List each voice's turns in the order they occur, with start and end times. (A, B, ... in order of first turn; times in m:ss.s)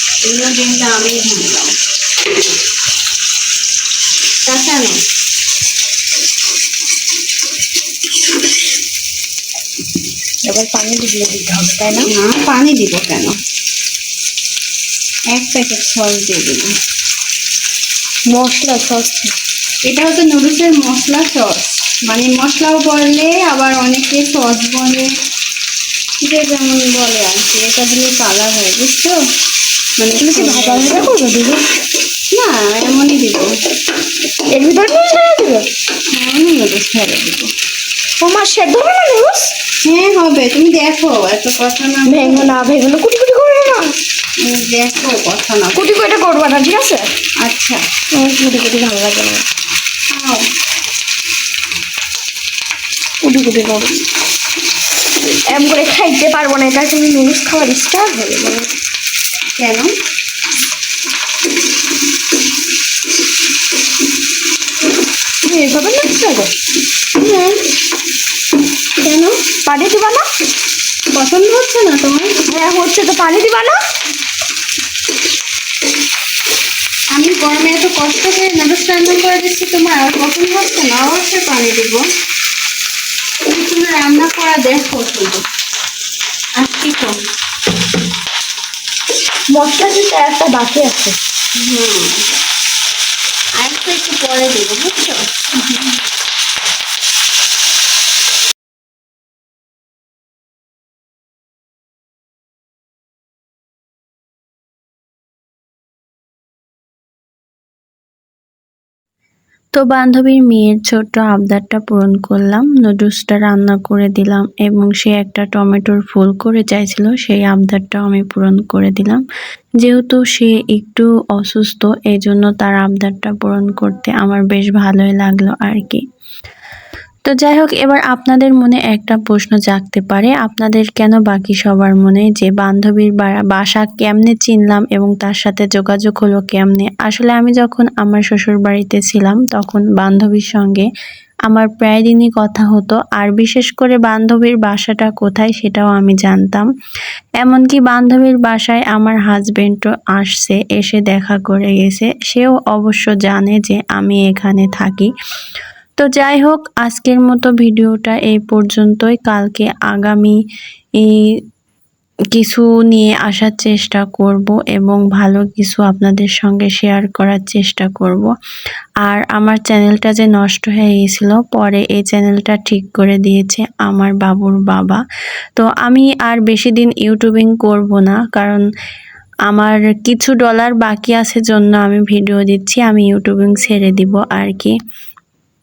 0:00.2-0:01.7 A
0:04.4-0:05.0 A
0:10.4-0:12.1 B
0:12.0-0:13.4 A
0:15.3-0:16.7 A
0:18.3-0:19.3 B
0:19.8-0:25.1 A
0:26.2-0:29.2 A
0:30.0-0:30.9 A
0:30.2-0:31.6 B
0:32.4-0:33.5 A
0:34.5-0:35.7 B
0:36.1-0:37.5 A
0:38.2-0:39.5 B
0:39.8-0:42.5 A
0:42.0-0:44.0 B
0:44.4-0:45.8 A
0:45.7-0:47.1 B
0:47.4-0:47.8 A
0:48.1-0:49.4 B
0:50.1-0:50.5 A
0:53.2-0:54.0 B
0:55.4-0:58.7 B
0:59.6-0:59.9 A
1:05.4-1:06.5 B
1:07.2-1:07.6 A
1:09.0-1:09.4 A
1:09.6-1:10.3 B
1:11.1-1:12.3 A
1:11.5-1:11.9 C
1:12.5-1:13.8 B
1:17.2-1:22.0 A
1:23.4-1:25.4 A
1:26.6-1:27.1 A
1:29.5-1:31.2 B
1:31.6-1:32.2 A
1:33.6-1:35.2 A
1:49.7-1:59.2 C
1:59.8-2:06.0 C
2:07.2-2:20.9 C
2:21.5-2:26.7 C
2:27.4-2:35.1 C
2:36.0-2:40.4 C
2:42.3-2:48.3 C
2:49.0-2:55.0 C
2:55.6-2:58.6 C
2:59.5-3:04.8 C